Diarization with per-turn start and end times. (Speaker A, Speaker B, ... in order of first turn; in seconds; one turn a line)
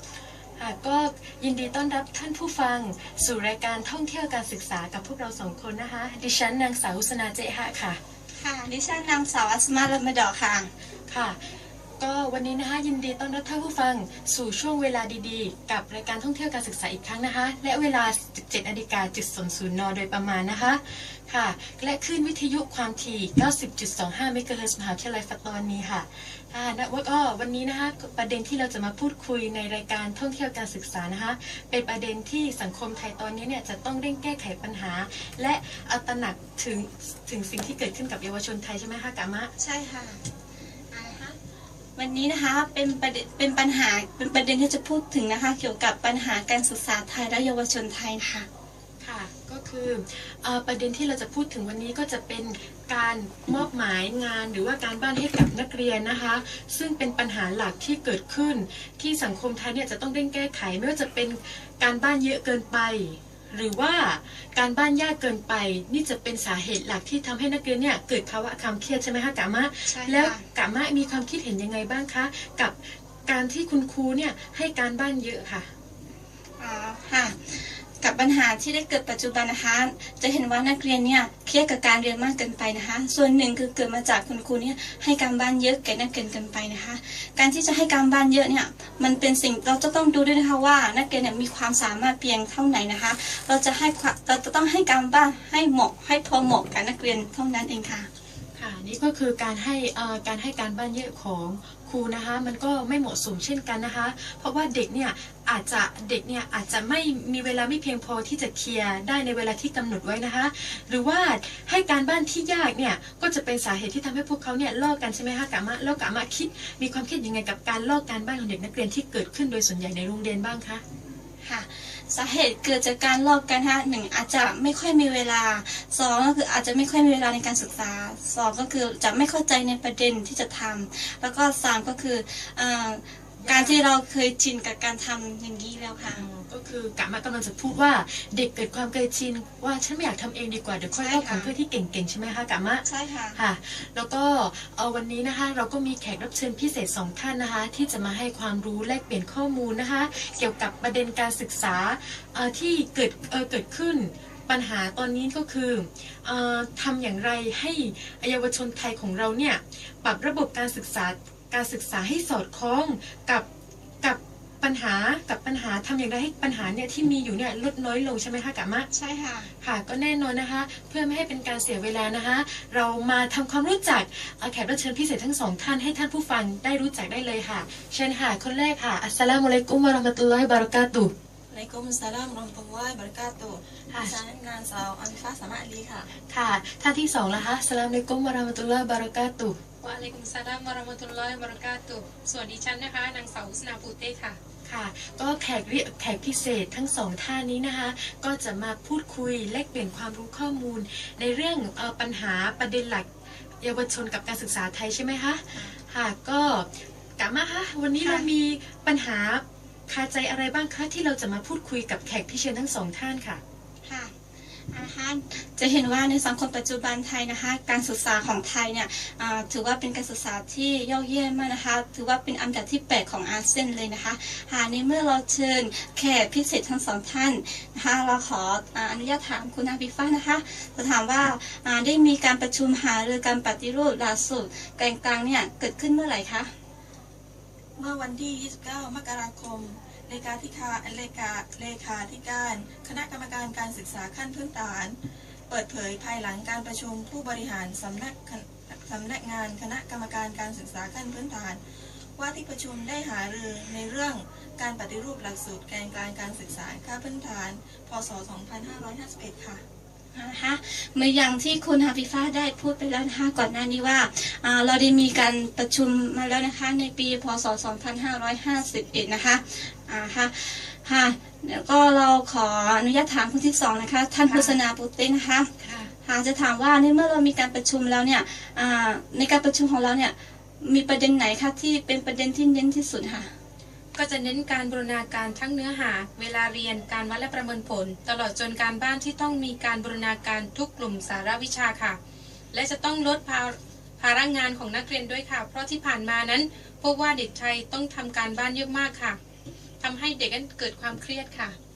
Speaker A: 0.6-8.0
Speaker B: 8.4-10.7
Speaker A: 11.1-11.4
Speaker A: 12.0-39.5
Speaker B: 39.6-40.2
Speaker B: 40.9-41.4
Speaker B: 42.0-48.5
Speaker A: 49.0-75.7
Speaker B: 69.9-70.4
Speaker B: 76.6-98.1
Speaker A: 98.5-120.8
Speaker B: 121.4-136.2
Speaker A: 133.4-133.8
Speaker A: 136.1-163.4
Speaker B: 140.9-141.5
Speaker B: 142.8-143.4
Speaker A: 164.0-168.9
Speaker B: 168.9-169.5
Speaker A: 169.6-181.1
Speaker C: 181.5-186.1
Speaker A: 183.9-184.1
Speaker A: 186.1-189.6
Speaker D: 189.8-194.4
Speaker A: 194.6-203.1
Speaker A: 203.6-213.4
Speaker B: 208.0-208.3
Speaker B: 213.8-214.2
Speaker B: 214.7-236.5
Speaker C: 237.8-244.9
Speaker C: 245.5-251.6
Speaker C: 252.2-259.6
Speaker B: 260.1-275.5
Speaker A: 274.3-274.6
Speaker A: 275.6-275.9
Speaker B: 276.0-283.3
Speaker D: 283.9-292.0
Speaker D: 292.5-299.2
Speaker D: 299.8-301.6